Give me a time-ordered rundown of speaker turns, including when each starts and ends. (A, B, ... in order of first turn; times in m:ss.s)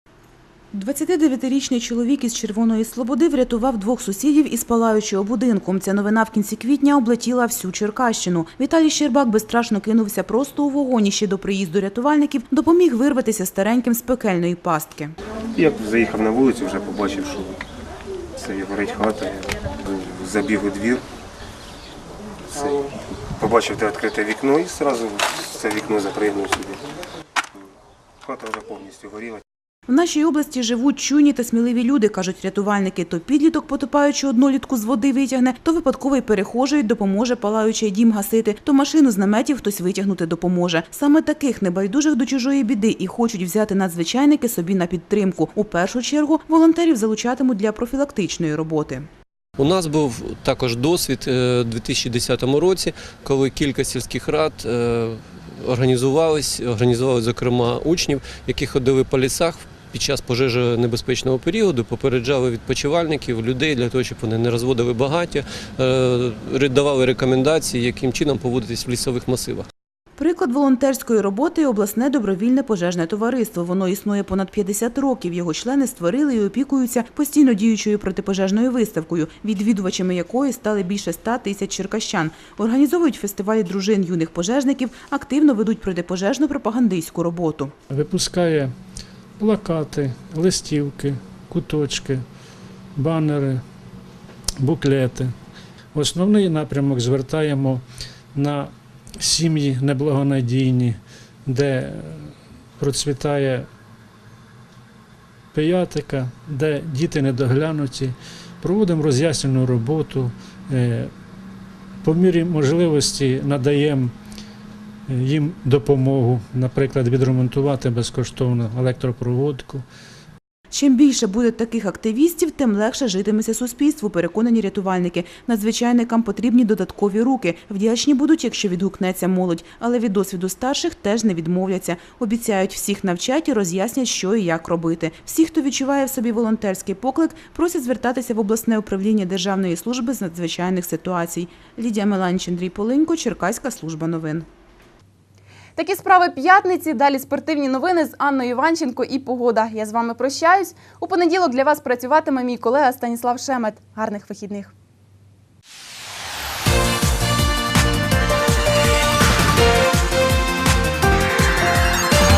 0:00.7-0:15.1 A
0:15.5-0:17.6 B
0:18.3-0:21.0 B
0:22.5-0:22.9 B
0:23.4-0:26.8 B
0:28.2-0:29.4 B
0:29.9-0:49.1 A
0:49.6-1:09.6 C
1:10.2-1:27.7 A
1:27.9-1:28.7 D
1:29.4-1:32.2 D
1:33.0-1:33.6 D
1:34.6-1:35.3 D
1:35.9-1:37.8 D
1:38.3-1:38.7 D
1:39.2-1:42.3 D
1:42.8-1:43.7 D
1:45.5-1:51.1 D
1:52.0-1:54.1 D
1:55.1-1:59.8 D
2:00.7-2:24.5 A
2:25.8-2:34.7 E